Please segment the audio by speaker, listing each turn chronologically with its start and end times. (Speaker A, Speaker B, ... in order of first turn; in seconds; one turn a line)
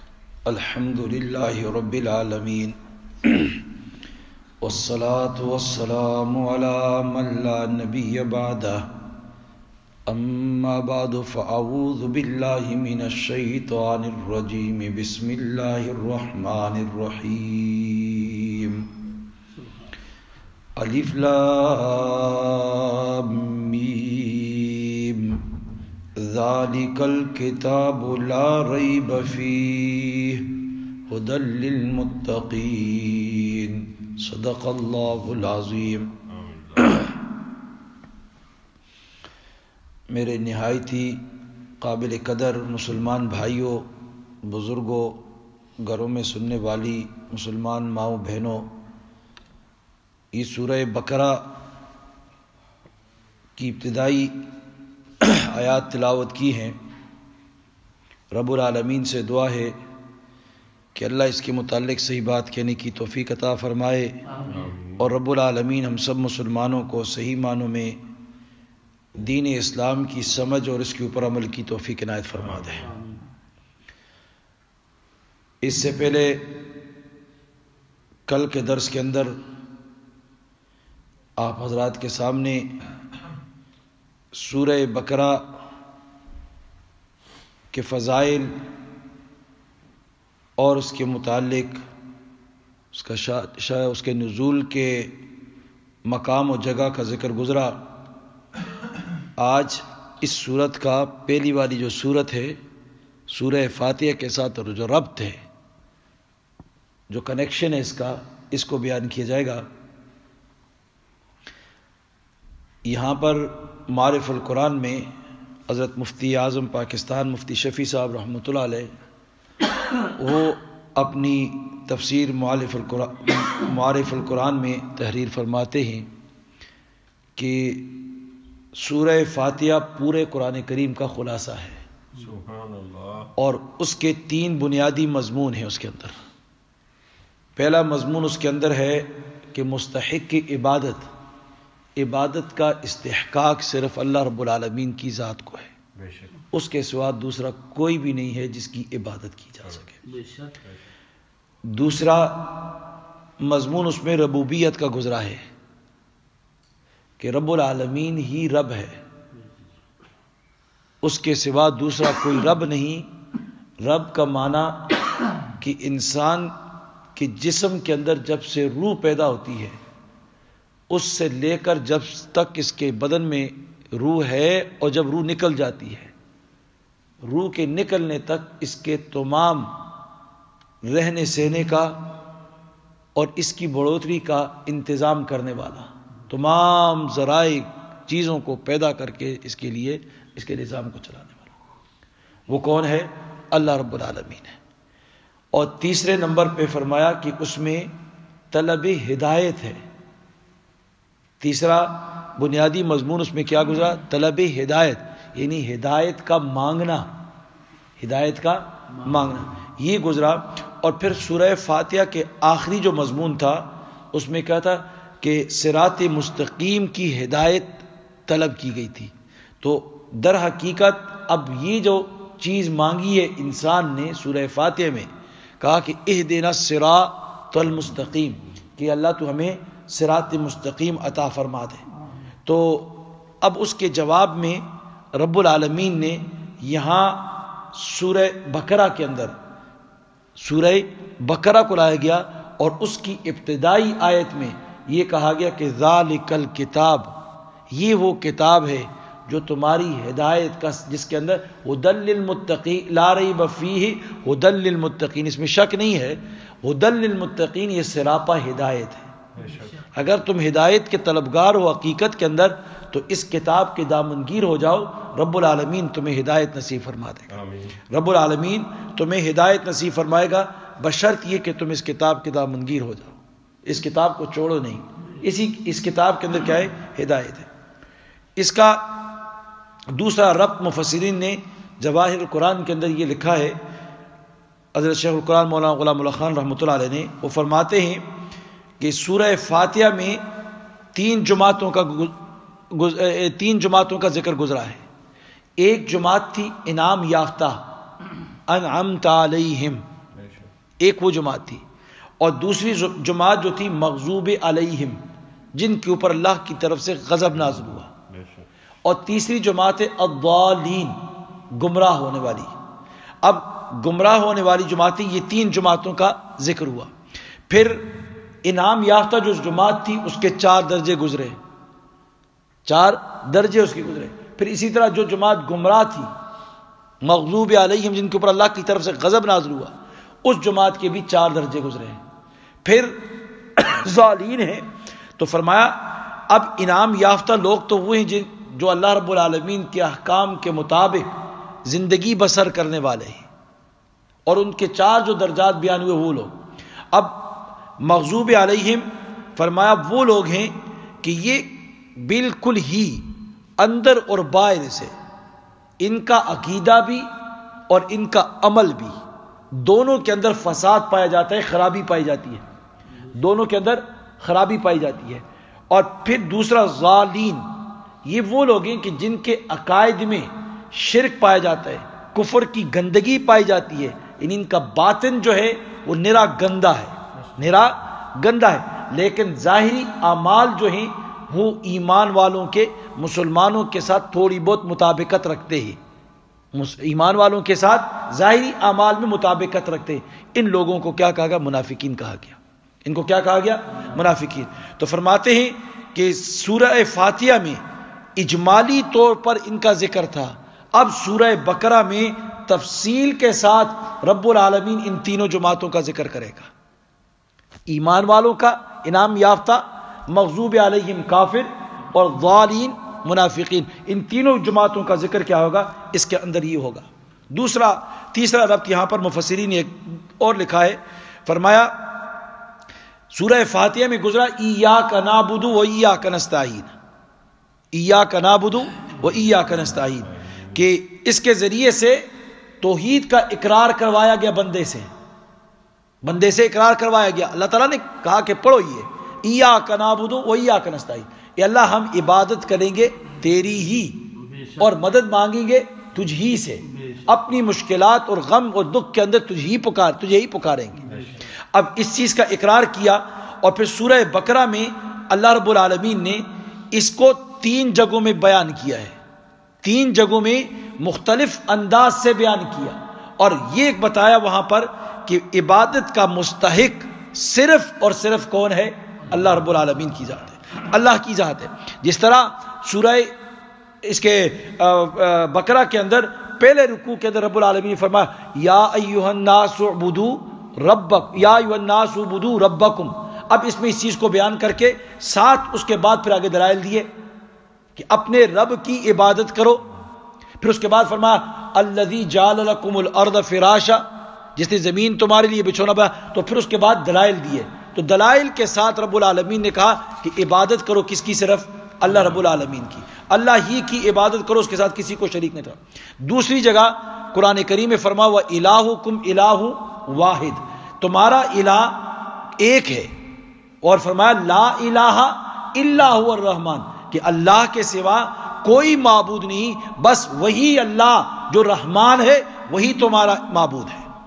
Speaker A: 0.5-3.7
Speaker A: 4.6-8.9
Speaker A: 10.1-18.9
Speaker A: 20.8-25.5
Speaker A: 26.2-36.2
Speaker B: 36.3-36.8
Speaker A: 36.8-37.2
Speaker A: 40.1-43.9
Speaker A: 44.4-48.8
Speaker A: 50.3-51.5
Speaker A: 53.5-54.4
Speaker A: 55.2-56.8
Speaker A: 58.3-59.8
Speaker A: 60.9-64.2
Speaker B: 64.5-65.0
Speaker A: 65.0-68.0
Speaker A: 69.2-72.9
Speaker A: 75.6-76.5
Speaker A: 78.3-79.4
Speaker A: 81.4-82.7
Speaker A: 84.3-85.5
Speaker A: 87.7-88.5
Speaker A: 90.6-91.8
Speaker A: 92.9-95.2
Speaker A: 96.0-97.9
Speaker A: 99.4-102.6
Speaker A: 103.3-105.4
Speaker A: 107.1-109.7
Speaker A: 112.8-115.1
Speaker A: 115.7-118.9
Speaker A: 120.0-126.1
Speaker A: 127.3-128.1
Speaker A: 128.7-131.8
Speaker B: 132.2-133.3
Speaker A: 133.3-136.1
Speaker A: 137.6-141.1
Speaker A: 142.0-145.7
Speaker B: 146.0-146.3
Speaker A: 146.5-150.0
Speaker A: 151.7-152.7
Speaker A: 153.4-155.4
Speaker A: 157.2-159.0
Speaker A: 161.0-163.1
Speaker A: 163.8-164.9
Speaker A: 165.6-166.5
Speaker A: 167.1-169.8
Speaker A: 170.9-176.1
Speaker A: 177.2-179.8
Speaker A: 180.8-182.1
Speaker A: 183.1-191.5
Speaker A: 192.5-194.6
Speaker A: 195.5-197.9
Speaker A: 198.5-199.8
Speaker A: 201.4-207.1
Speaker A: 208.0-225.1
Speaker A: 225.6-231.8
Speaker A: 232.4-239.3
Speaker A: 240.3-247.2
Speaker A: 247.7-259.1
Speaker B: 259.4-259.8
Speaker A: 259.9-267.3
Speaker B: 267.3-267.7
Speaker A: 267.9-277.5
Speaker A: 278.4-279.2
Speaker A: 279.9-283.6
Speaker A: 284.7-288.0
Speaker A: 288.8-290.2
Speaker A: 290.9-292.1
Speaker A: 292.7-294.8
Speaker A: 295.6-297.6
Speaker A: 298.5-299.9
Speaker B: 300.1-300.5
Speaker A: 300.8-301.6
Speaker A: 302.2-305.0
Speaker A: 305.5-307.9
Speaker B: 308.1-308.5
Speaker A: 308.8-312.5
Speaker A: 313.2-316.9
Speaker A: 317.5-321.4
Speaker A: 322.6-326.1
Speaker A: 327.0-332.0
Speaker A: 332.6-343.2
Speaker A: 344.3-346.4
Speaker A: 346.9-354.9
Speaker A: 355.8-357.1
Speaker A: 357.7-359.0
Speaker A: 359.5-362.4
Speaker A: 363.0-385.8
Speaker A: 386.5-397.6
Speaker A: 398.2-406.5
Speaker A: 407.7-422.0
Speaker A: 423.1-426.7
Speaker A: 427.7-432.1
Speaker A: 432.6-434.9
Speaker A: 436.0-450.8
Speaker B: 450.9-451.2
Speaker A: 451.5-458.9
Speaker A: 459.6-473.1
Speaker A: 473.8-486.9
Speaker A: 487.7-489.7
Speaker A: 490.4-512.9
Speaker A: 513.6-523.9